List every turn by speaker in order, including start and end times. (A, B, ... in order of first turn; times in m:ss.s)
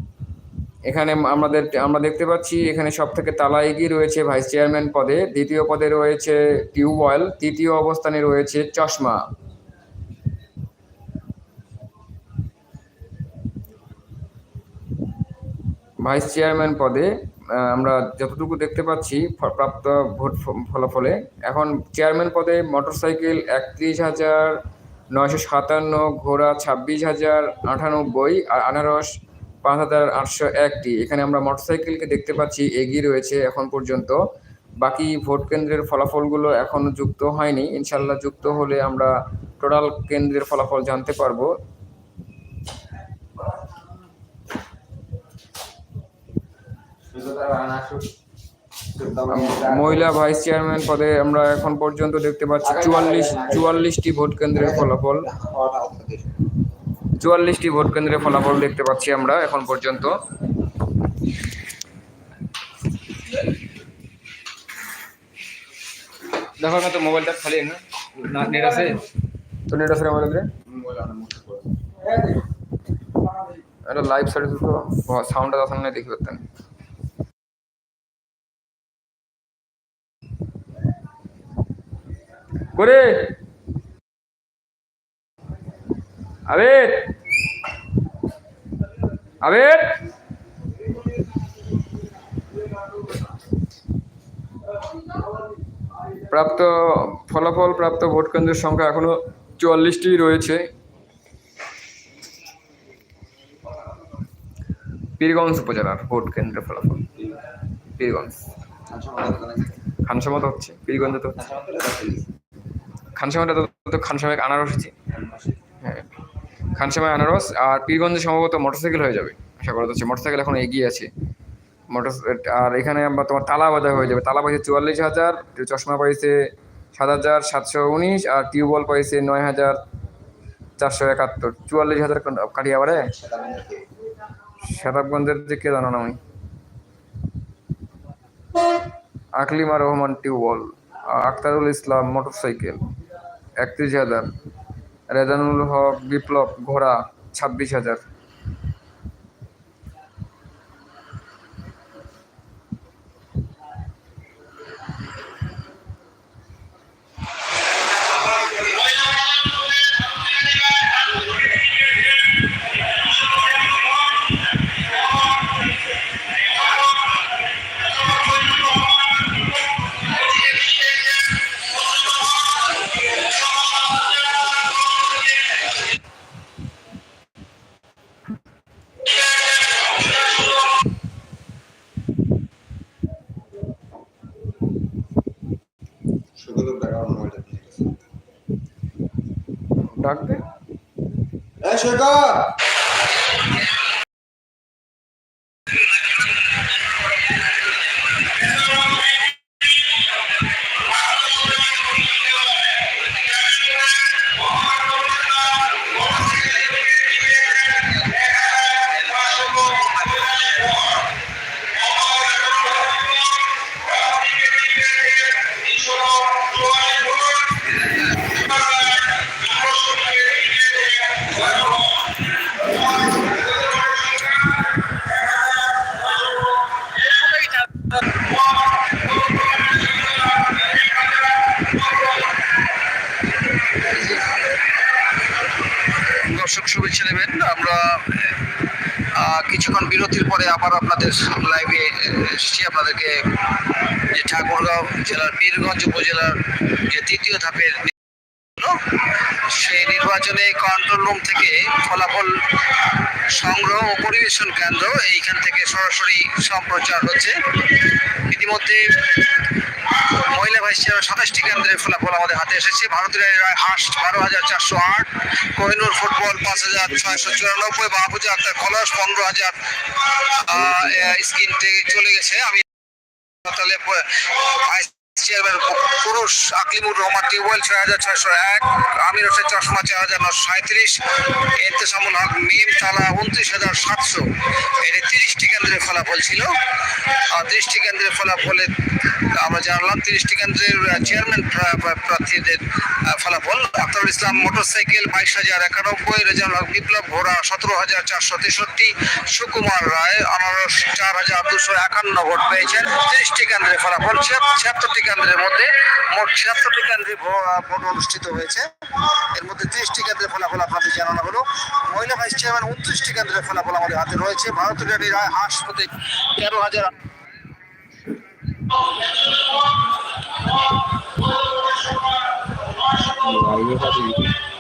0:00.9-0:09.2 A
0:16.0-0:24.6 A
0:25.1-0:29.1 A
0:29.6-0:34.2 A
0:34.8-0:41.5 A
0:47.1-0:48.1 B
0:48.9-0:50.1 B
0:49.3-0:55.3 A
0:52.6-0:53.7 B
0:54.5-0:56.3 B
0:57.2-1:00.2 A
1:06.6-1:09.0 A
1:09.7-1:10.5 A
1:10.7-1:11.7 B
1:13.9-1:16.4 A
1:22.7-1:23.3 A
1:26.5-1:27.1 A
1:29.4-1:30.0 A
1:36.3-1:40.7 A
1:45.2-1:47.1 A
1:48.0-1:48.4 A
1:48.9-1:49.7 B
1:50.1-1:51.4 A
1:51.4-1:52.3 B
1:53.2-1:54.9 A
1:55.2-1:55.5 B
1:56.8-2:01.1 A
2:01.9-2:06.4 A
2:06.9-2:09.8 A
2:10.8-2:13.1 A
2:13.1-2:13.8 B
2:14.6-2:16.2 A
2:19.4-2:22.8 A
2:23.6-2:24.3 A
2:25.1-2:28.0 A
3:06.4-3:08.0 B
3:09.9-3:10.4 A
3:11.6-3:12.5 B
3:54.0-3:54.3 B
3:56.0-3:58.4 C
3:59.2-4:07.9 C
4:08.6-4:32.7 C
4:33.4-5:16.9 C
5:23.2-5:24.3 A